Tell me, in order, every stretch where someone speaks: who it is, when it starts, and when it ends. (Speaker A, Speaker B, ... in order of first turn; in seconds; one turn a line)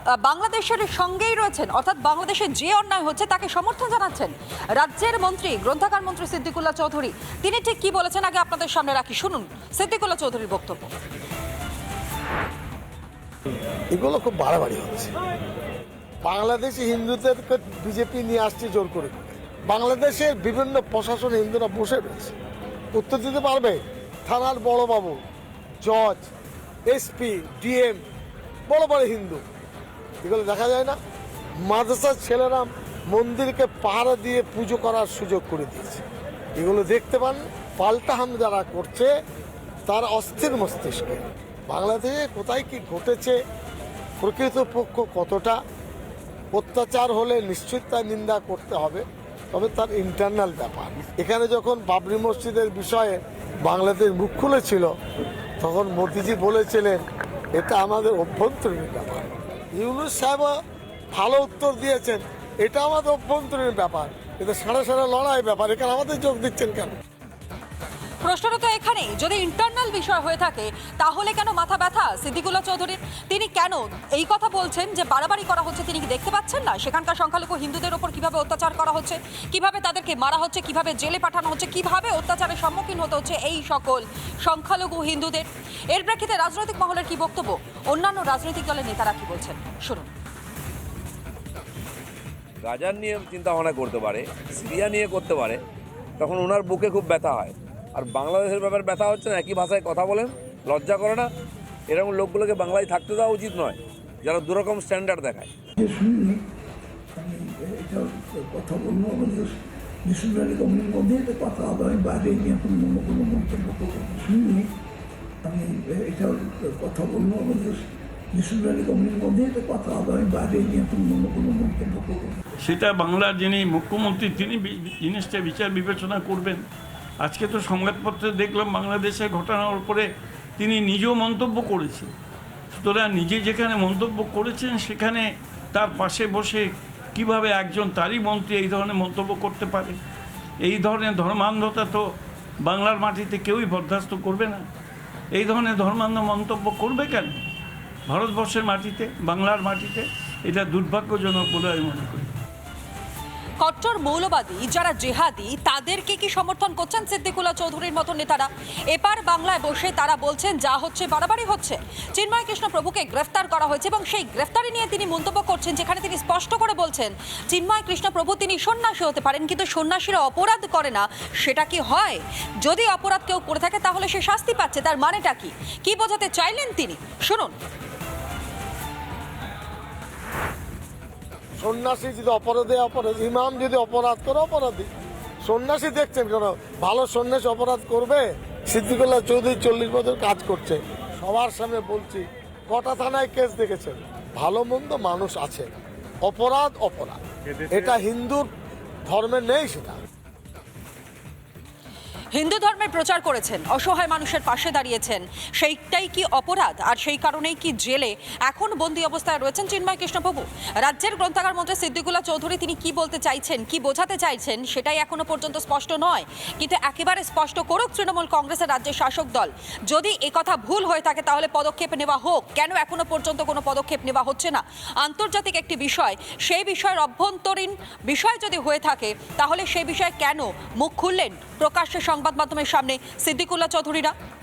Speaker A: 0.2-10.9
Speaker B: 13.9-15.1
Speaker B: 16.2-22.4
Speaker B: 22.9-25.2
Speaker B: 25.8-26.3
Speaker B: 26.9-28.0
Speaker B: 28.7-29.4
Speaker B: 30.2-31.0
Speaker B: 31.7-36.0
Speaker B: 36.6-39.1
Speaker B: 39.9-43.4
Speaker B: 44.2-45.6
Speaker B: 46.5-54.9
Speaker B: 55.6-60.6
Speaker B: 61.1-67.0
Speaker A: 68.2-90.1
Speaker C: 92.6-95.6
Speaker C: 96.2-101.3
Speaker C: 101.9-105.5
Speaker D: 105.8-106.4
Speaker D: 107.2-114.7
Speaker D: 115.4-122.4
Speaker E: 122.6-126.6
Speaker E: 127.2-130.1
Speaker E: 130.6-132.1
Speaker E: 132.7-140.0
Speaker E: 140.6-142.0
Speaker E: 142.7-144.7
Speaker E: 145.4-147.4
Speaker E: 148.1-152.3
Speaker A: 153.6-177.6
Speaker B: 181.6-184.9
Speaker B: 185.4-195.7
Speaker B: 196.2-198.5
Speaker B: 199.1-200.0
Speaker A: 202.3-234.1